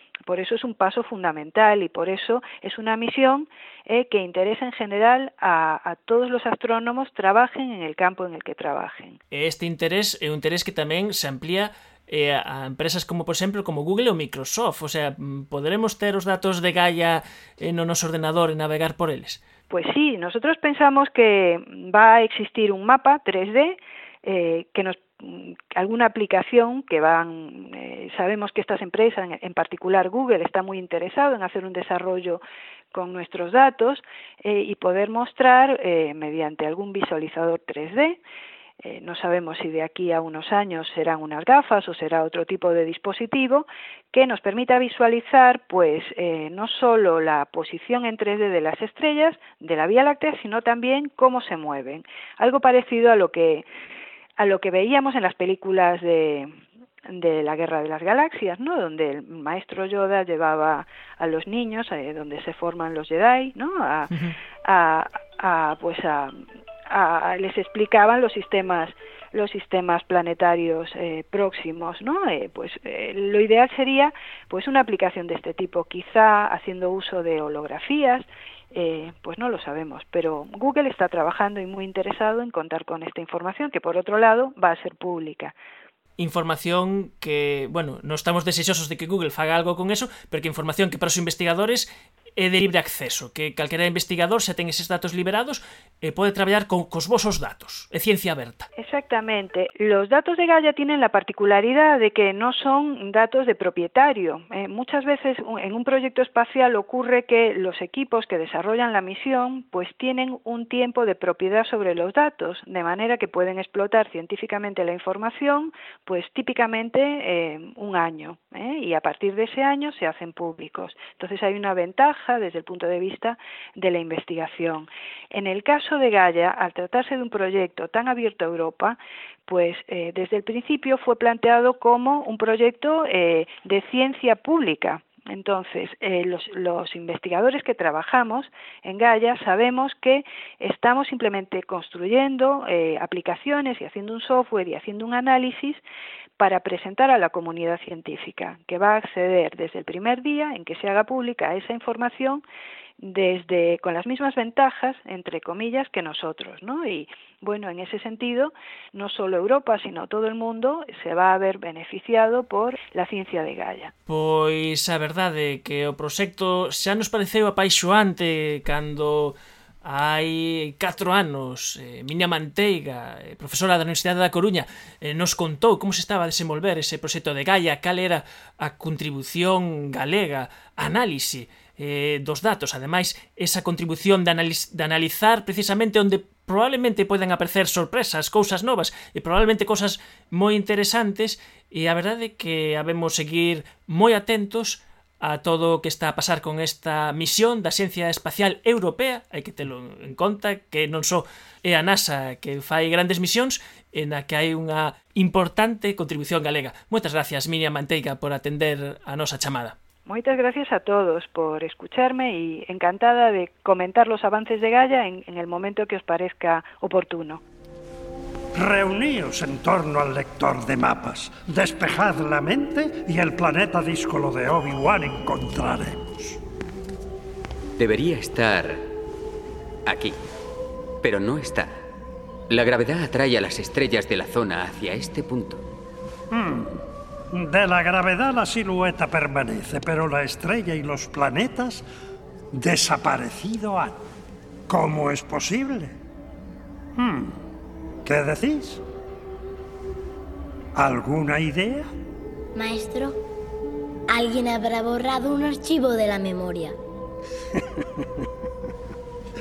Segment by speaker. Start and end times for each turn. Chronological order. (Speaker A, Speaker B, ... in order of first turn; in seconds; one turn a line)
Speaker A: 0.3-9.2
Speaker B: 9.3-19.4
Speaker A: 19.7-32.4
Speaker A: 32.9-38.2
Speaker A: 38.8-53.6
Speaker A: 54.4-85.5
Speaker B: 86.2-98.7
Speaker A: 98.8-145.8
Speaker A: 146.4-152.4
Speaker A: 153.0-163.9
Speaker B: 164.1-209.7
Speaker A: 210.1-217.4
Speaker C: 218.5-226.4
Speaker D: 227.8-228.8
Speaker D: 229.8-230.2
Speaker D: 231.0-231.7
Speaker D: 232.5-235.6
Speaker C: 236.3-241.8
Speaker C: 242.5-244.0
Speaker C: 244.7-245.9
Speaker C: 246.9-247.4
Speaker C: 248.0-248.8
Speaker C: 250.7-251.9
Speaker E: 252.5-253.2
Speaker E: 254.1-256.7